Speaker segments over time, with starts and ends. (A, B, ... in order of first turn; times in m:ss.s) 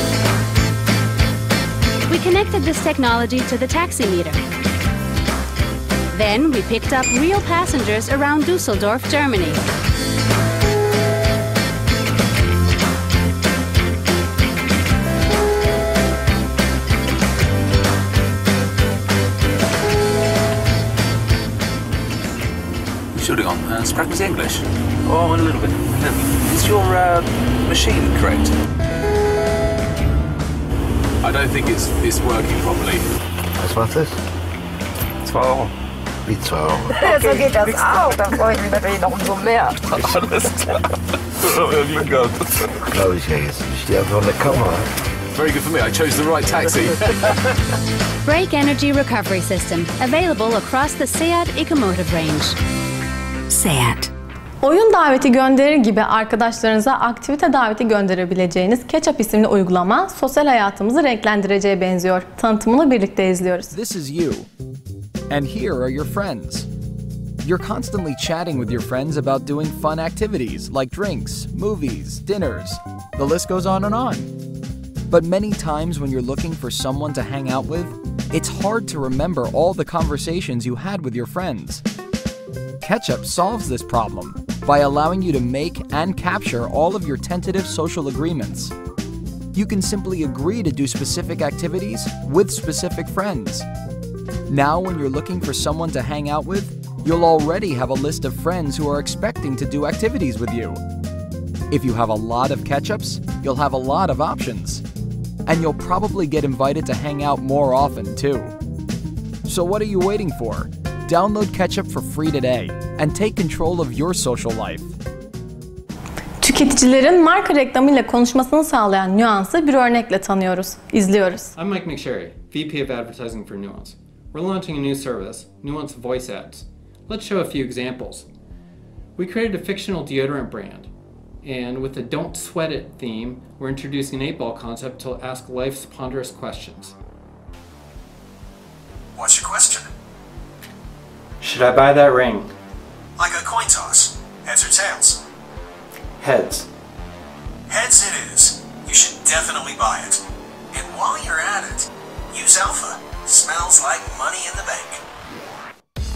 0:02.1-0:04.4 A
0:06.1-0:09.6 A
0:23.1-0:28.5 B
0:31.2-0:33.1 B
0:33.6-0:34.2 C
0:36.2-0:37.0 C
0:36.9-0:39.8 D
0:41.5-0:42.3 B
0:42.8-0:44.9 C
0:45.3-0:47.5 B
0:48.2-0:52.5 A
0:53.5-0:54.1 A
0:54.6-1:03.7 E
1:03.7-1:04.5 F
1:05.3-1:06.7 F
1:07.4-1:14.3 F
1:15.1-1:21.8 F
1:22.8-1:28.7 F
1:29.5-1:33.7 F
1:34.5-1:40.8 F
1:41.7-1:44.8 F
1:45.5-1:48.5 F
1:49.4-1:54.9 F
1:56.4-2:01.5 E
2:01.6-2:08.2 G
2:09.2-2:10.9 G
2:11.4-2:16.9 G
2:19.2-2:19.9 H
2:21.4-2:22.5 G
2:23.2-2:25.2 H
2:26.2-2:26.6 G
2:27.7-2:35.0 H